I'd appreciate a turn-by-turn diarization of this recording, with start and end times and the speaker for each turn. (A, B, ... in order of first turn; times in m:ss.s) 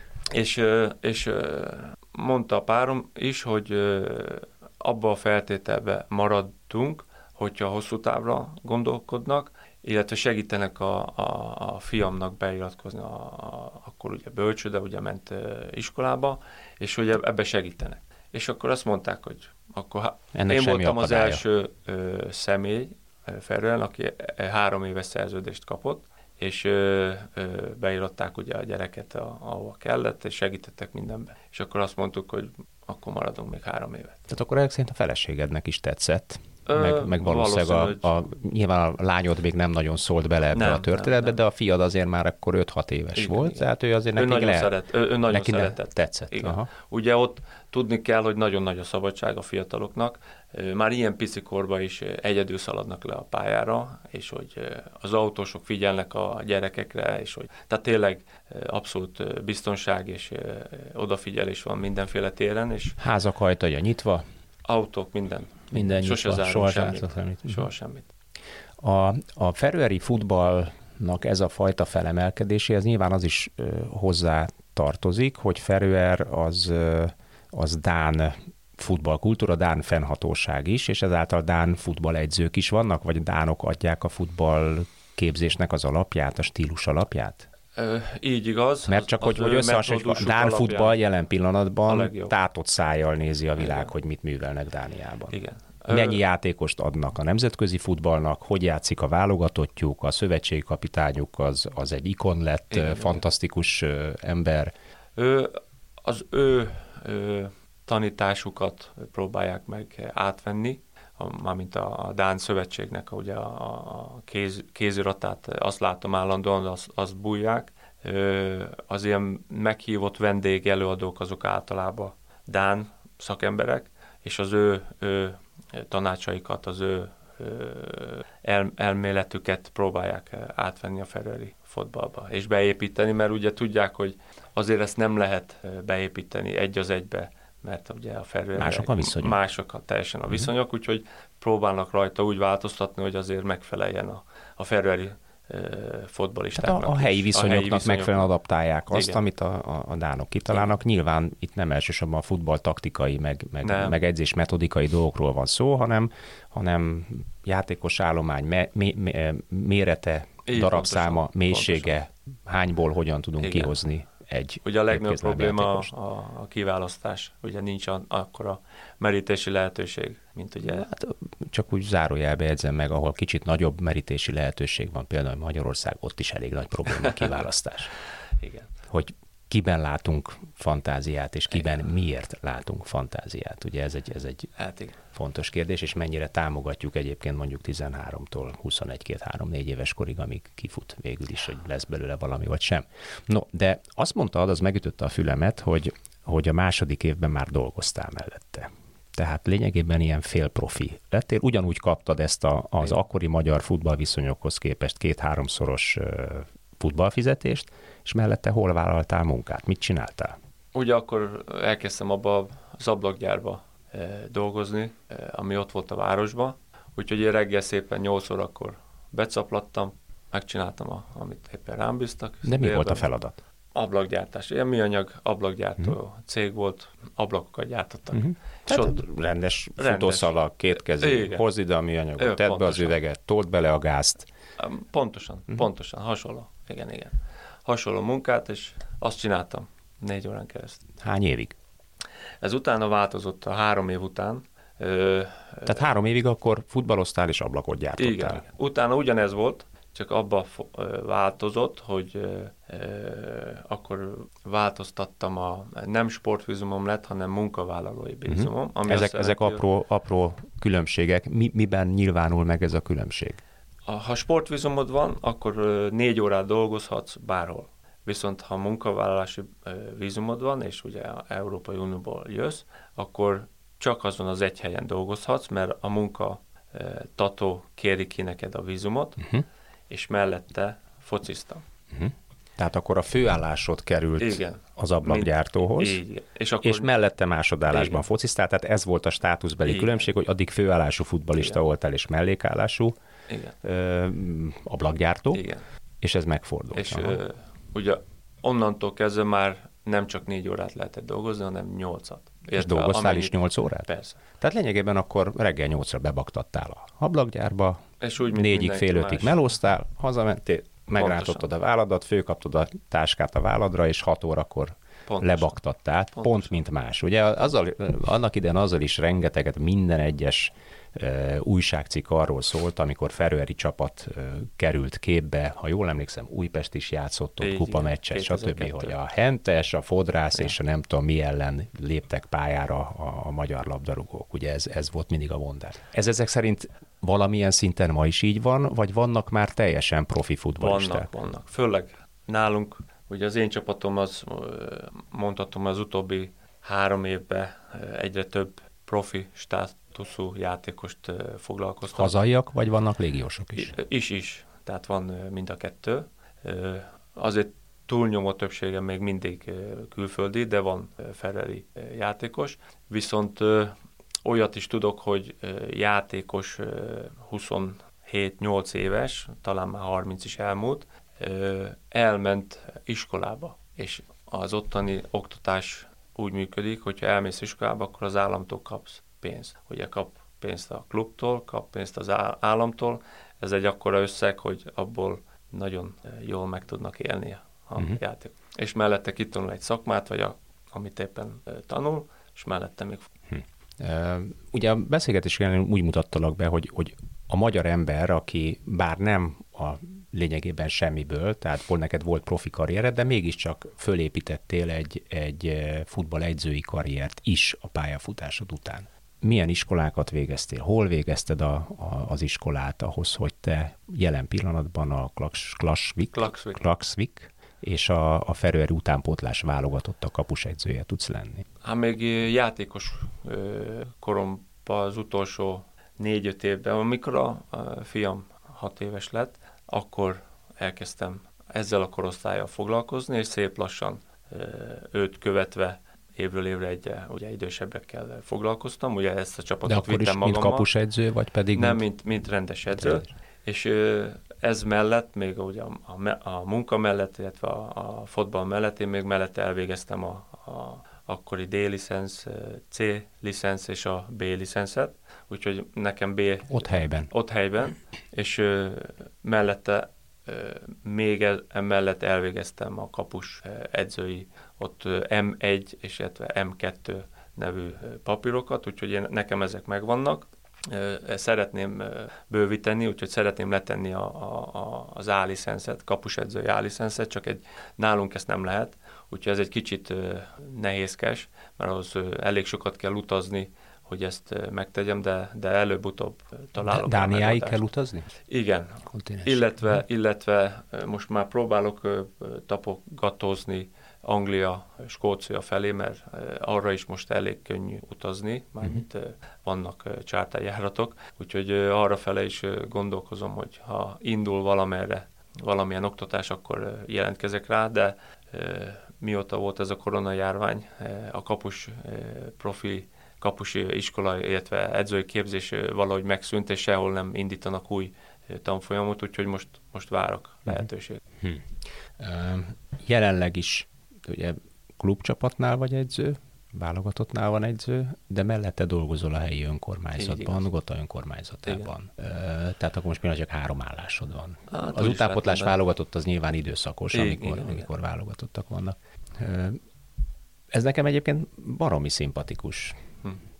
0:00.3-0:34.3 A
0:20.3-0:21.4 B
0:34.3-0:44.7 B
0:36.6-0:38.1 A
0:40.5-0:41.4 A
0:43.1-1:03.0 A
0:45.3-0:46.7 B
1:03.0-1:04.2 B
1:04.6-1:08.1 A
1:05.7-1:07.7 B
1:08.8-1:27.5 B
1:27.7-1:31.0 A
1:28.8-1:44.7 B
1:31.9-1:32.3 A
1:33.6-1:33.9 A
1:35.3-1:36.2 A
1:42.7-1:43.2 A
1:45.2-2:28.3 A
2:18.6-2:19.4 B
2:26.6-2:45.9 B
2:28.9-2:29.2 A
2:33.6-2:34.0 A
2:40.4-2:42.0 A
2:43.4-2:43.7 A
2:44.6-2:50.9 A
2:50.6-2:57.9 B
2:58.4-2:58.7 A
2:58.9-3:04.5 B
3:01.5-3:01.8 A
3:04.6-3:05.0 A
3:05.1-3:30.4 B
3:30.7-3:43.1 A
3:42.4-3:43.4 B
3:43.7-3:49.0 A
3:48.1-3:54.3 B
3:49.8-3:50.3 A
3:50.9-3:51.4 A
3:52.2-3:52.9 A
3:54.6-4:00.8 A
4:01.0-4:01.6 B
4:02.4-4:05.9 A
4:05.6-4:08.4 B
4:08.0-4:19.6 A
4:18.3-4:23.4 B
4:23.9-4:39.3 A
4:39.9-4:41.6 A
4:41.9-4:46.0 B
4:44.2-4:46.9 A
4:46.6-4:52.9 B
4:47.7-4:48.0 A
4:49.6-4:50.1 A
4:51.3-4:51.6 A
4:53.3-4:53.6 A
4:53.6-4:55.4 B
4:55.3-4:55.6 A
4:56.0-4:57.2 B
4:56.7-5:04.2 A
5:02.6-5:41.1 B
5:08.0-5:09.4 A
5:11.0-5:11.5 A
5:15.1-5:15.6 A
5:16.1-5:16.5 A
5:27.4-5:29.0 A
5:40.6-5:52.1 A
5:51.9-5:53.7 B
5:53.5-6:33.1 A
6:33.3-7:01.4 B
6:56.1-6:56.6 A
7:01.6-7:20.7 A
7:19.6-7:21.8 B
7:21.5-8:07.6 A
7:22.7-7:23.1 B
7:36.5-7:37.1 B
8:06.6-8:08.1 B
8:08.2-8:41.0 A
8:08.8-8:09.8 B
8:41.2-8:59.6 B
8:50.0-8:50.5 A
8:51.4-8:51.7 A
8:54.5-8:55.6 A
8:56.9-8:57.7 A
9:00.5-9:02.8 B